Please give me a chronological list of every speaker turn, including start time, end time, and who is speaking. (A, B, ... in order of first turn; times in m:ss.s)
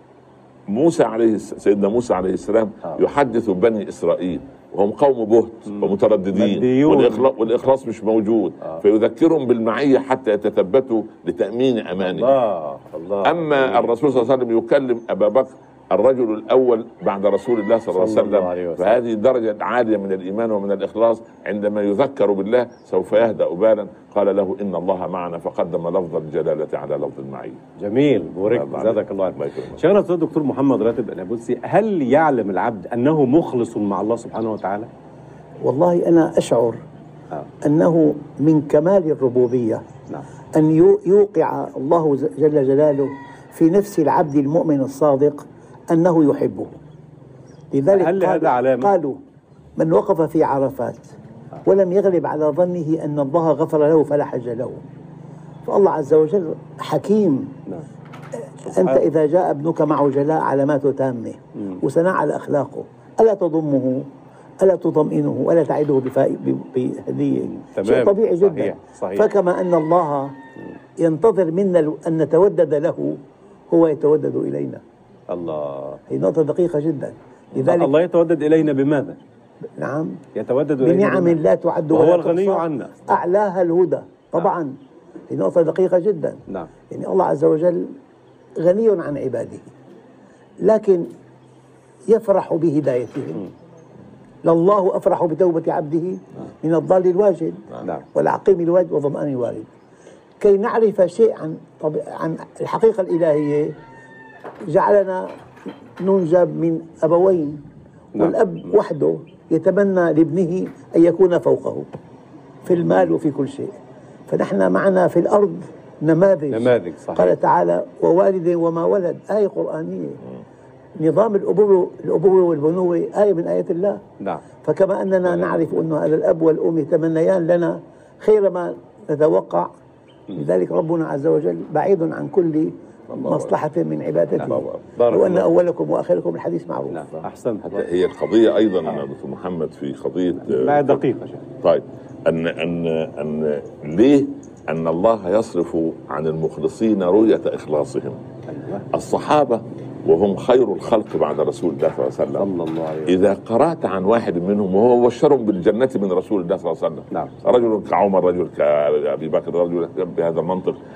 0:00.7-0:12.4 A
0:06.3-0:07.2 B
0:12.0-0:13.9 B
0:13.2-0:27.6 A
0:17.9-0:19.0 B
0:27.8-0:34.9 B
0:28.4-0:29.8 A
0:35.6-0:36.8 C
0:37.6-0:39.9 C
0:40.6-0:46.8 C
0:47.7-0:49.2 C
0:47.9-0:48.9 B
0:49.8-0:51.1 C
0:51.6-0:54.8 C
0:55.6-0:57.6 C
0:58.6-1:04.0 C
1:04.6-1:10.3 C
1:07.6-1:09.2 B
1:11.0-1:13.2 C
1:13.7-1:14.8 C
1:15.3-1:16.0 B
1:16.1-1:17.9 C
1:17.6-1:19.2 B
1:19.8-1:20.2 C
1:20.4-1:21.4 B
1:20.8-1:24.7 C
1:21.9-1:22.9 B
1:25.3-1:27.9 C
1:28.6-1:29.7 C
1:30.6-1:31.0 C
1:32.1-1:33.5 C
1:34.4-1:39.7 C
1:40.4-1:43.7 C
1:44.7-1:45.2 C
1:46.0-1:47.6 C
1:48.2-1:51.9 C
1:52.6-1:53.7 C
1:52.7-1:52.9 A
1:54.3-2:00.2 C
1:56.5-1:57.3 B
2:01.0-2:04.0 C
2:04.6-2:09.7 C
2:10.3-2:17.2 C
2:13.1-2:13.5 A
2:14.4-2:15.5 B
2:16.9-2:17.8 B
2:17.6-2:21.0 A
2:20.4-2:21.5 B
2:21.6-2:28.2 A
2:28.5-2:28.8 B
2:28.9-2:32.5 A
2:32.4-2:33.1 B
2:33.0-2:40.8 A
2:37.1-2:37.4 B